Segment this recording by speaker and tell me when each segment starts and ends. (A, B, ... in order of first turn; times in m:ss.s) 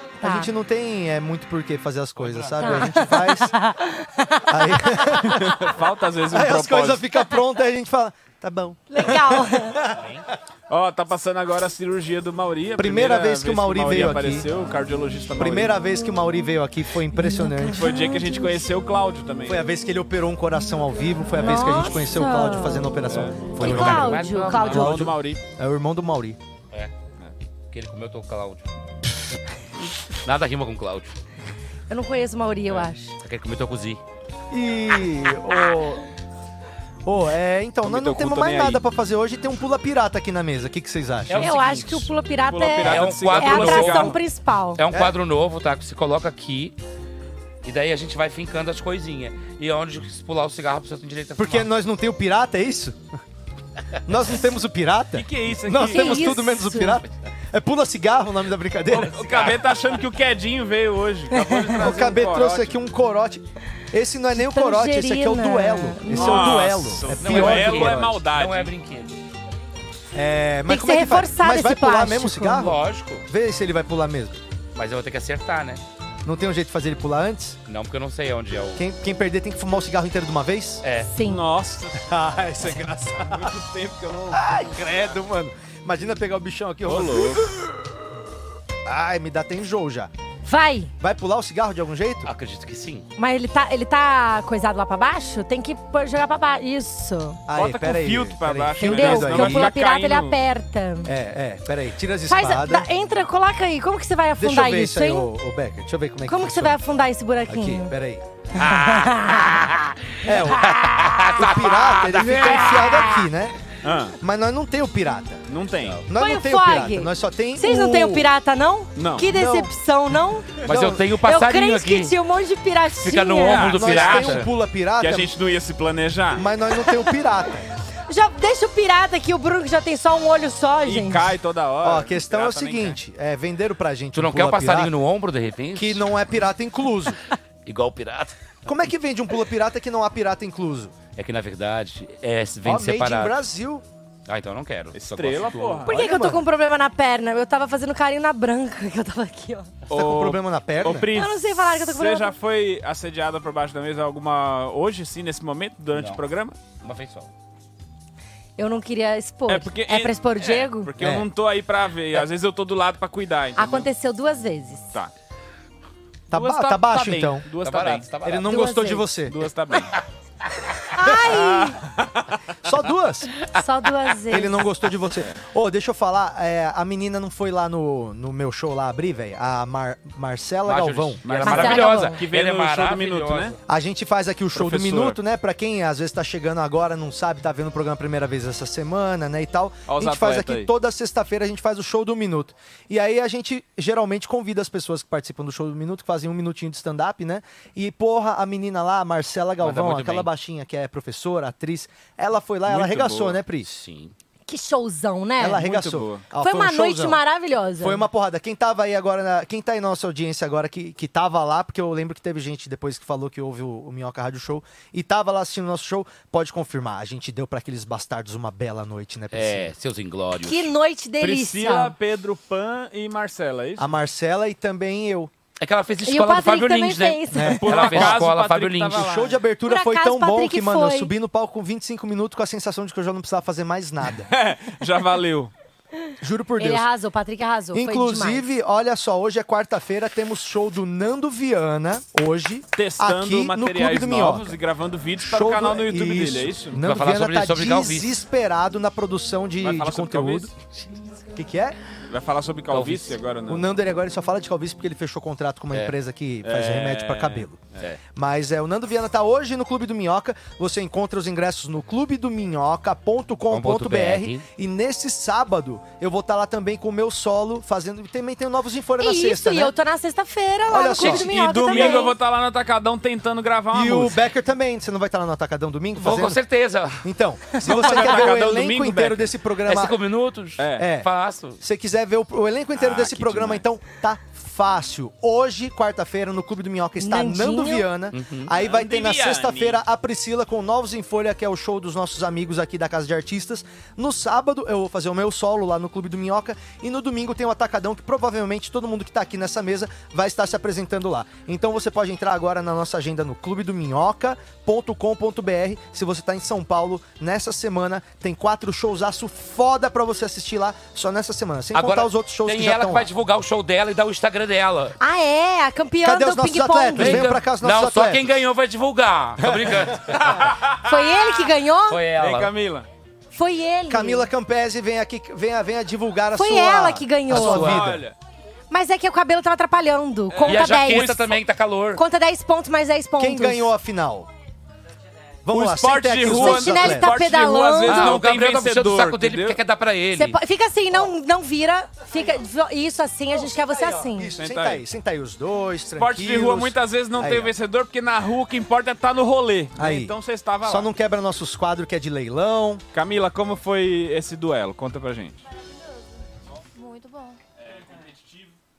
0:00.2-0:00.5 A
0:00.2-0:03.5 B
0:02.2-0:02.5 C
0:02.6-0:05.2 A
0:04.5-0:05.6 B
0:05.2-0:07.0 C
0:06.3-0:10.0 B
0:08.9-0:09.8 A
0:10.7-0:15.7 C
0:12.8-0:14.5 B
0:15.4-0:17.8 B
0:17.2-0:18.4 A
0:17.7-0:19.6 C
0:19.4-0:26.4 B
0:21.4-0:23.0 A
0:23.1-0:23.5 C
0:23.6-0:25.0 D
0:23.6-0:24.9 A
0:24.6-0:25.4 C
0:27.7-0:28.7 D
0:30.2-0:31.1 D
0:31.9-0:33.1 A
0:33.2-0:34.0 D
0:34.5-0:36.0 B
0:37.0-0:41.4 B
0:37.8-0:38.8 C
0:41.3-0:42.1 D
0:41.4-0:44.8 A
0:42.5-0:44.2 C
0:42.8-0:44.2 D
0:44.8-0:46.8 D
0:47.6-0:51.7 D
0:51.4-0:53.0 B
0:54.1-0:59.2 B
0:55.1-0:56.3 C
0:55.8-0:57.0 A
0:58.9-1:02.7 C
0:59.3-0:59.6 D
1:01.3-1:01.8 A
1:01.7-1:08.2 B
1:04.3-1:06.6 A
1:06.1-1:08.7 C
1:07.1-1:09.2 D
1:10.1-1:14.4 B
1:10.7-1:12.7 A
1:12.6-1:13.2 D
1:14.7-1:15.8 D
1:16.2-1:17.6 B
1:17.7-1:18.8 D
1:18.8-1:20.8 B
1:20.8-1:21.1 D
1:21.1-1:21.4 A
1:21.2-1:24.4 C
1:22.0-1:23.5 B
1:24.3-1:27.7 B
1:26.8-1:27.4 C
1:28.8-1:30.1 B
1:30.4-1:30.9 A
1:31.0-1:32.3 B
1:32.2-1:33.1 D
1:33.2-1:37.4 A
1:37.5-1:39.7 B
1:37.5-1:40.4 C
1:38.8-1:41.1 A
1:41.0-1:42.9 B
1:42.3-1:45.3 A
1:44.4-1:46.8 B
1:46.2-1:47.9 A
1:47.5-1:48.2 B
1:48.6-1:49.8 D
1:48.6-1:49.8 A
1:50.2-1:53.6 B
1:50.6-1:53.2 D
1:53.8-1:54.2 C
1:54.2-1:55.4 B
1:55.5-1:56.0 C
1:56.1-1:58.3 B
1:56.1-2:00.5 A
1:59.0-1:59.3 C
1:59.3-1:59.7 B
2:00.6-2:02.1 D
2:00.7-2:01.0 B
2:01.2-2:03.7 A
2:03.0-2:04.5 D
2:03.4-2:06.4 C
2:03.7-2:05.3 B
2:06.3-2:07.6 B
2:08.1-2:11.3 A
2:10.8-2:13.0 C
2:11.8-2:14.9 B
2:14.1-2:16.0 D
2:15.7-2:17.2 B
2:17.6-2:18.4 D
2:18.6-2:21.0 B
2:21.1-2:23.3 D
2:22.6-2:23.8 B
2:24.3-2:25.9 D
2:24.9-2:25.9 C
2:25.9-2:29.7 A
2:25.9-2:26.4 B
2:29.9-2:36.6 C
2:29.9-2:31.1 B
2:31.1-2:32.3 A
2:35.9-2:36.2 D
2:36.8-2:37.3 D
2:38.6-2:40.9 A
2:39.5-2:43.9 C
2:41.0-2:41.3 B
2:43.6-2:44.8 A
2:46.3-2:47.5 B
2:46.3-2:48.1 C
2:47.6-2:48.5 D
2:48.2-2:49.4 B
2:48.4-2:49.1 A
2:49.3-2:49.9 C
2:50.9-2:51.8 A
2:51.3-2:52.2 C
2:52.6-2:53.3 B
2:53.5-2:54.6 A
2:54.3-3:01.3 B
3:00.6-3:03.6 D
3:01.2-3:03.5 C
3:01.4-3:02.2 A
3:03.7-3:23.8 B
3:04.5-3:05.2 C
3:09.9-3:10.7 C
3:19.6-3:20.3 D
3:22.7-3:23.4 C
3:23.6-3:24.1 D
3:24.4-3:25.7 A
3:25.4-3:27.2 B
3:25.6-3:26.2 C
3:26.4-3:28.0 A
3:27.8-3:39.7 B
3:39.3-3:40.7 D
3:40.4-3:41.9 A
3:41.2-3:43.8 C
3:43.8-3:45.3 B
3:45.6-3:49.1 D
3:46.0-3:47.8 A
3:47.3-3:48.3 B
3:47.6-3:49.4 C
3:49.0-3:54.3 B
3:49.7-3:51.1 A
3:54.3-3:55.5 C
3:56.2-3:56.9 B
3:56.6-3:58.5 A
3:57.7-4:04.6 B
4:02.7-4:06.8 C
4:05.2-4:10.5 B
4:06.8-4:08.2 D
4:09.6-4:10.5 C
4:11.4-4:11.8 B
4:12.1-4:13.7 C
4:12.7-4:13.2 D
4:13.5-4:17.6 B
4:16.4-4:17.8 C
4:18.2-4:29.7 B
4:23.5-4:24.4 D
4:29.0-4:32.1 A
4:30.7-4:32.1 B
4:31.0-4:34.2 C
4:33.7-4:36.4 B
4:36.0-4:37.0 D
4:37.0-4:40.0 B
4:37.6-4:39.3 C
4:39.7-4:41.6 D
4:40.6-4:40.8 C
4:40.8-4:41.1 B
4:41.6-5:13.1 B
4:42.8-4:43.5 C
4:47.0-4:47.8 A
4:48.1-4:48.5 D
4:48.6-4:49.8 C
5:11.7-5:14.9 D
5:15.0-5:17.3 A
5:16.0-5:18.4 B
5:17.0-5:20.5 D
5:19.4-5:19.8 B
5:20.4-5:20.7 C
5:20.8-5:22.0 A
5:21.9-5:22.5 D
5:22.2-5:22.9 C
5:23.3-5:24.3 A
5:23.9-5:28.0 B
5:26.4-5:27.8 A
5:27.3-5:27.9 D
5:27.5-5:28.1 C
5:28.7-5:31.2 A
5:30.3-5:31.2 C
5:30.4-5:32.0 D
5:31.9-5:33.6 A
5:33.2-5:34.3 B
5:35.4-5:37.2 B
5:35.5-5:39.6 C
5:36.2-5:38.1 A
5:37.8-5:40.4 D
5:40.1-5:44.3 A
5:44.0-5:47.5 B
5:44.4-5:44.8 C
5:45.9-5:50.9 C
5:49.8-5:52.8 B
5:52.9-5:55.4 C
5:55.4-5:57.4 E
5:57.6-5:58.6 C